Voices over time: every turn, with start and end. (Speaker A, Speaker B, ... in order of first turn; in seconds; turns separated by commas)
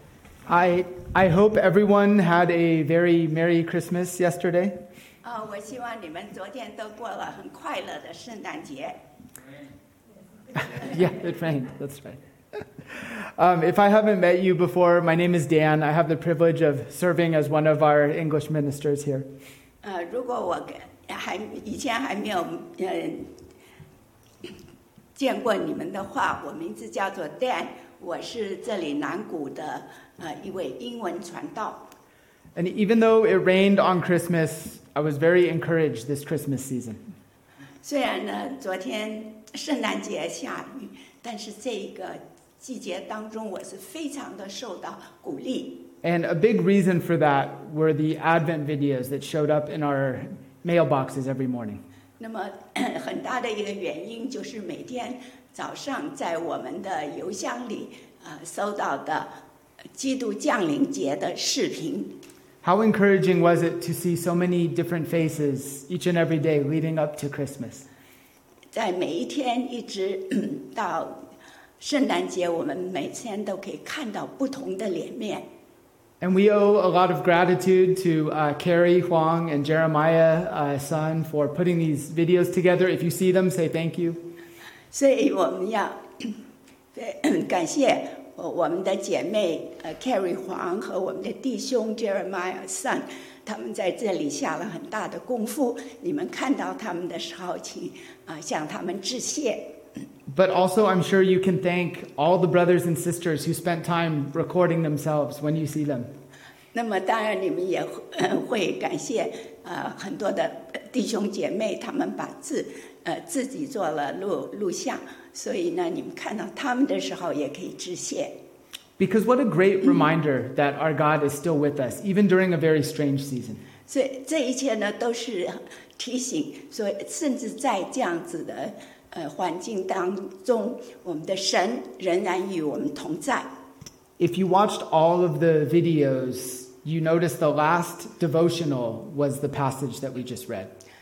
Speaker A: 0.5-4.8, Speaker B: 5.2-9.0, Speaker A: 10.5-19.3, Speaker B: 19.8-23.3, Speaker B: 25.1-31.8, Speaker A: 32.5-37.0, Speaker B: 37.8-45.8, Speaker A: 46.0-51.8, Speaker B: 52.2-59.3, Speaker B: 60.0-62.1, Speaker A: 62.6-67.8, Speaker B: 68.7-71.2, Speaker B: 71.8-75.4, Speaker A: 76.2-84.2, Speaker B: 84.9-86.3, Speaker B: 86.9-99.7, Speaker A: 100.3-106.1, Speaker B: 106.7-118.3, Speaker A: 119.0-123.6, Speaker B: 123.9-133.5, Speaker A: 134.2-140.7